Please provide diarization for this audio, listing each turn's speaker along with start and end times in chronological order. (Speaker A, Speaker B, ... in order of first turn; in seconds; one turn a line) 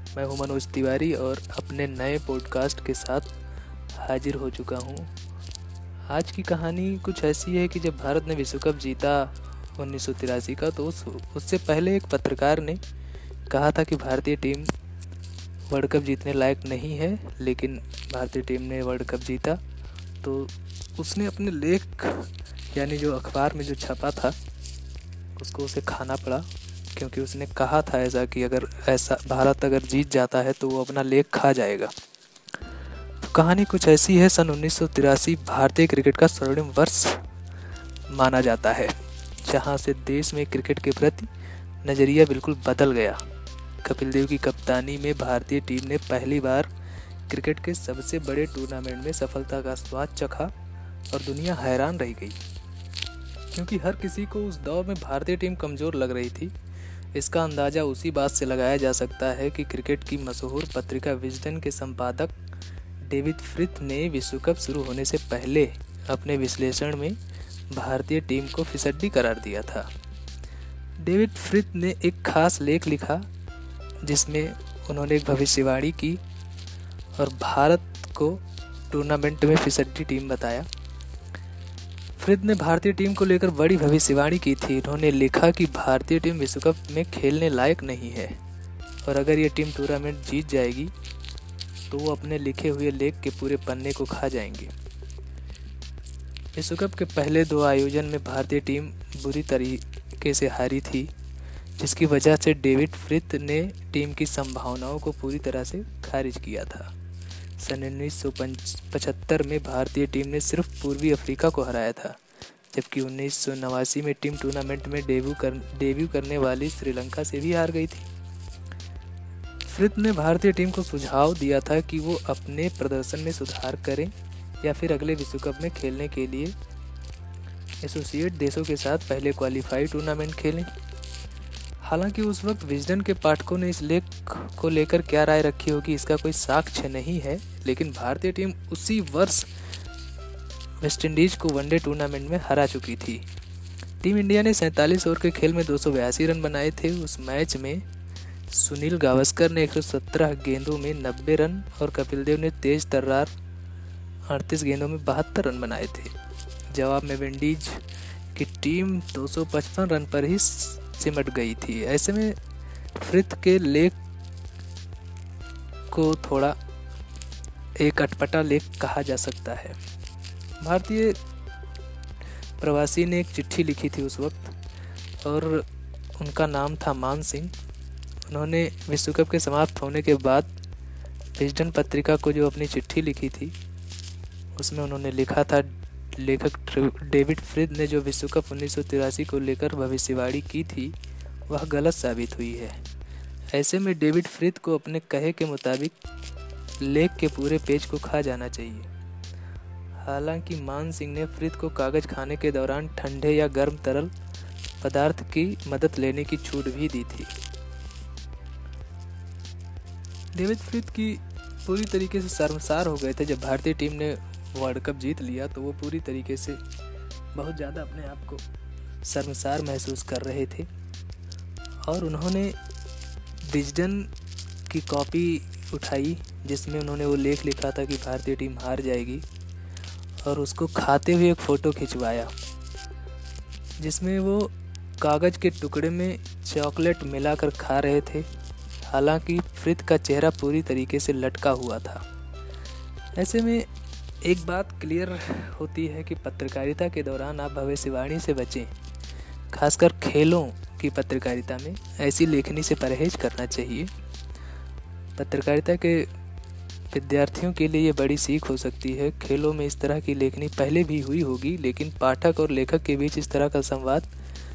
Speaker A: 0.1-3.3
Speaker A: 4.0-5.1
Speaker A: 6.1-12.8
Speaker A: 13.5-14.7
Speaker A: 15.7-19.6
Speaker A: 20.2-24.4
Speaker A: 25.4-31.9
Speaker A: 33.2-37.2
Speaker A: 38.1-41.3
Speaker A: 41.8-43.2
Speaker A: 43.8-46.7
Speaker A: 47.3-50.5
Speaker A: 51.1-52.4
Speaker A: 53.5-56.5
Speaker A: 57.1-62.4
Speaker A: 63.0-67.2
Speaker A: 67.7-69.9
Speaker A: 71.0-73.2
Speaker A: 74.0-76.2
Speaker A: 77.2-80.7
Speaker A: 82.2-88.4
Speaker A: 89.0-90.9
Speaker A: 91.9-94.7
Speaker A: 96.5-101.1
Speaker A: 101.8-106.9
Speaker A: 107.6-112.2
Speaker A: 112.7-118.1
Speaker A: 119.7-126.5
Speaker A: 127.8-130.7
Speaker A: 131.8-139.5
Speaker A: 140.8-143.2
Speaker A: 144.0-147.8
Speaker A: 148.5-153.3
Speaker A: 154.3-156.1
Speaker A: 156.7-157.8
Speaker A: 158.3-162.4
Speaker A: 163.0-164.0
Speaker A: 165.9-166.6
Speaker A: 167.8-169.8
Speaker A: 170.6-171.2
Speaker A: 172.6-174.6
Speaker A: 175.2-175.7
Speaker A: 176.2-177.5
Speaker A: 178.3-180.5
Speaker A: 181.4-183.6
Speaker A: 184.6-191.0
Speaker A: 191.5-192.8
Speaker A: 193.5-195.9
Speaker A: 196.8-198.9
Speaker A: 200.0-204.1
Speaker A: 204.8-207.3
Speaker A: 210.3-216.6
Speaker A: 217.3-218.4
Speaker A: 219.0-220.7
Speaker A: 221.9-222.6
Speaker A: 223.4-224.1
Speaker A: 224.7-229.2
Speaker A: 230.2-232.3
Speaker A: 233.8-238.3
Speaker A: 238.8-242.0
Speaker A: 243.2-243.7
Speaker A: 244.2-248.7
Speaker A: 249.5-253.9
Speaker A: 255.2-256.1
Speaker A: 256.9-264.1